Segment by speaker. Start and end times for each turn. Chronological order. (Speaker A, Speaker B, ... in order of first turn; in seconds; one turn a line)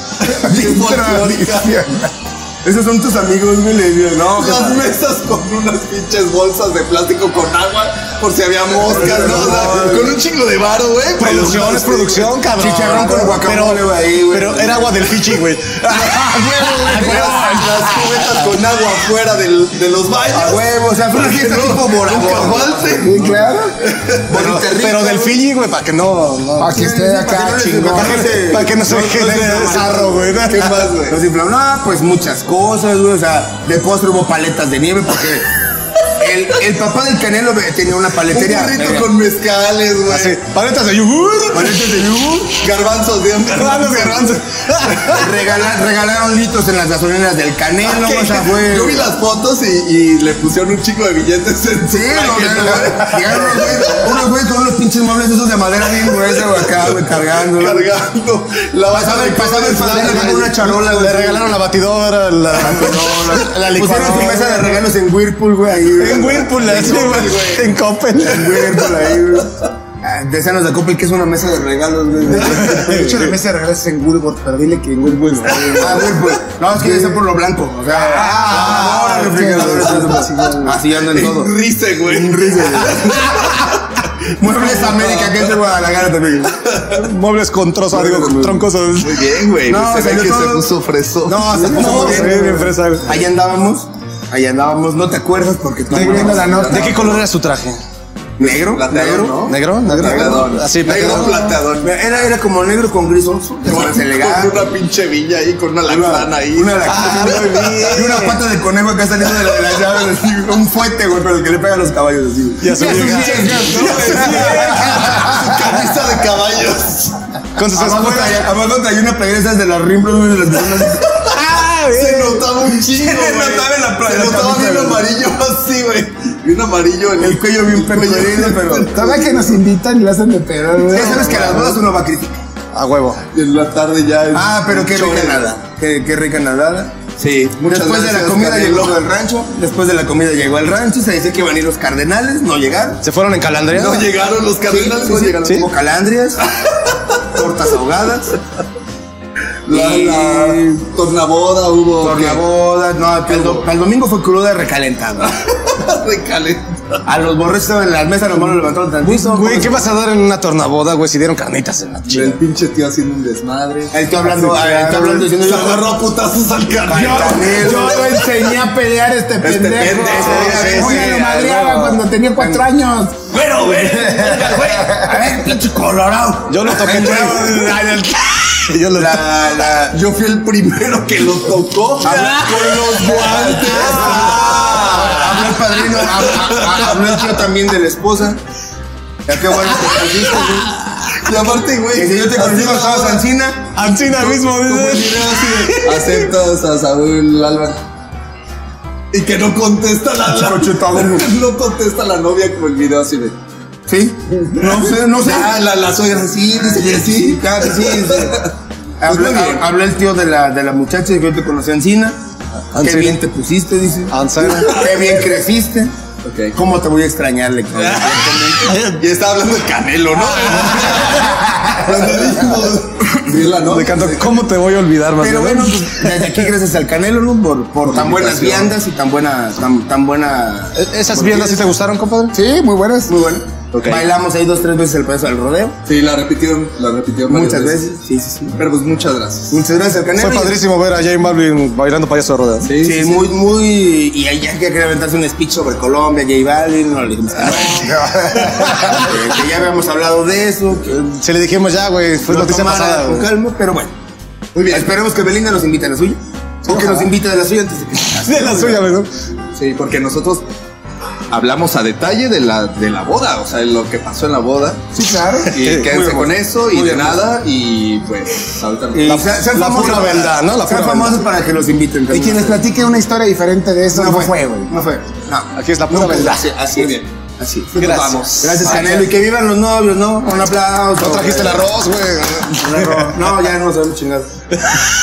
Speaker A: 0.2-1.9
Speaker B: 0.4-1.4
Speaker C: 0.9-1.8
Speaker B: 2.6-4.8
Speaker A: 4.2-12.3
Speaker B: 8.9-10.2
Speaker D: 11.2-17.5
Speaker B: 12.5-15.1
Speaker B: 15.9-17.4
Speaker A: 16.1-24.6
Speaker C: 16.4-17.7
Speaker B: 20.3-23.5
Speaker C: 23.0-23.7
Speaker B: 24.3-25.4
Speaker D: 24.5-26.8
Speaker C: 26.6-28.2
Speaker B: 26.7-30.4
Speaker D: 27.6-30.9
Speaker A: 30.4-31.2
Speaker B: 31.1-35.5
Speaker B: 36.2-39.1
Speaker A: 38.2-40.4
Speaker D: 40.1-41.8
Speaker B: 41.5-42.6
Speaker A: 42.5-45.3
Speaker D: 43.6-45.2
Speaker B: 45.1-49.1
Speaker A: 47.8-54.3
Speaker B: 51.9-57.9
Speaker A: 55.9-60.5
Speaker B: 58.9-61.6
Speaker D: 59.9-64.8
Speaker B: 62.5-67.6
Speaker D: 66.0-68.4
Speaker A: 66.4-67.7
Speaker B: 68.1-73.0
Speaker A: 68.5-69.0
Speaker C: 72.3-76.1
Speaker D: 72.5-73.3
Speaker A: 75.5-76.1
Speaker B: 75.7-83.3
Speaker C: 76.8-77.2
Speaker D: 78.1-79.3
Speaker A: 78.1-80.3
Speaker C: 79.1-80.8
Speaker A: 80.9-85.7
Speaker B: 84.3-86.7
Speaker A: 86.7-87.0
Speaker D: 86.9-89.1
Speaker B: 87.9-88.7
Speaker A: 89.0-92.1
Speaker B: 89.7-90.7
Speaker B: 91.2-96.8
Speaker D: 91.7-93.1
Speaker C: 91.8-92.2
Speaker C: 95.9-97.1
Speaker A: 96.0-97.2
Speaker D: 96.7-97.8
Speaker B: 98.4-100.4
Speaker A: 98.4-101.9
Speaker D: 99.5-101.3
Speaker B: 101.0-104.7
Speaker A: 103.7-108.3
Speaker B: 105.9-115.4
Speaker D: 106.9-108.3
Speaker D: 112.6-115.2
Speaker C: 112.7-115.8
Speaker A: 113.5-117.2
Speaker D: 117.6-118.5
Speaker B: 117.7-121.2
Speaker A: 120.9-129.6
Speaker D: 121.3-122.5
Speaker B: 122.6-125.1
Speaker B: 127.2-129.0
Speaker C: 128.9-131.8
Speaker B: 130.9-132.4
Speaker A: 130.9-131.8
Speaker D: 132.7-133.2
Speaker A: 133.3-135.6
Speaker B: 134.3-143.0
Speaker A: 137.2-139.0
Speaker D: 143.0-144.1
Speaker A: 143.7-145.7
Speaker B: 144.7-146.4
Speaker A: 146.6-146.9
Speaker B: 147.2-148.4
Speaker A: 149.7-152.4
Speaker B: 149.7-150.8
Speaker B: 152.0-155.3
Speaker A: 153.3-153.6
Speaker A: 155.2-157.0
Speaker B: 157.1-159.9
Speaker D: 159.0-162.4
Speaker A: 162.1-164.0
Speaker B: 163.9-166.0
Speaker C: 164.3-165.3
Speaker A: 165.3-168.3
Speaker B: 166.8-168.1
Speaker C: 166.9-173.2
Speaker A: 169.4-171.2
Speaker B: 170.0-171.3
Speaker D: 170.2-172.0
Speaker B: 172.4-172.7
Speaker A: 173.3-175.2
Speaker C: 174.1-175.4
Speaker B: 174.5-178.1
Speaker D: 176.5-178.0
Speaker A: 177.1-177.3
Speaker D: 178.7-179.1
Speaker B: 178.9-180.0
Speaker A: 179.0-187.3
Speaker B: 182.0-188.4
Speaker D: 183.2-185.2
Speaker B: 189.3-190.7
Speaker A: 191.2-193.2
Speaker B: 191.9-193.7
Speaker D: 193.8-196.1
Speaker A: 193.9-197.8
Speaker A: 199.1-203.4
Speaker B: 200.3-201.3
Speaker B: 203.9-212.2
Speaker A: 204.6-208.5
Speaker A: 209.1-209.7
Speaker D: 212.8-213.2
Speaker B: 212.8-215.9
Speaker D: 214.1-214.7
Speaker A: 214.4-215.4
Speaker A: 216.2-216.5
Speaker B: 216.5-218.7
Speaker D: 218.7-219.0
Speaker A: 218.7-224.5
Speaker B: 220.2-221.7
Speaker D: 223.7-225.8
Speaker B: 225.2-231.7
Speaker A: 227.9-228.7
Speaker D: 230.8-232.3
Speaker C: 232.3-233.1
Speaker B: 233.1-235.8
Speaker A: 233.7-234.1
Speaker A: 235.9-237.9
Speaker B: 237.3-238.6
Speaker A: 238.5-239.6
Speaker B: 239.5-240.6
Speaker D: 240.2-242.7
Speaker A: 242.6-243.2
Speaker B: 242.8-248.1
Speaker C: 247.7-248.9
Speaker D: 248.5-249.0
Speaker B: 248.7-251.0
Speaker D: 251.0-253.3
Speaker B: 252.3-253.9
Speaker A: 254.6-254.9
Speaker B: 254.7-258.9
Speaker D: 256.7-257.1
Speaker D: 258.3-259.1
Speaker A: 259.5-260.4
Speaker A: 261.3-264.8
Speaker C: 264.9-265.6
Speaker A: 265.5-269.5
Speaker B: 265.8-267.3
Speaker B: 268.9-272.7
Speaker D: 269.1-271.2
Speaker C: 272.1-274.7
Speaker B: 273.9-281.7
Speaker D: 275.6-276.4
Speaker A: 276.3-277.1
Speaker A: 277.7-279.1
Speaker D: 277.8-278.3
Speaker D: 281.0-283.0
Speaker B: 282.5-284.6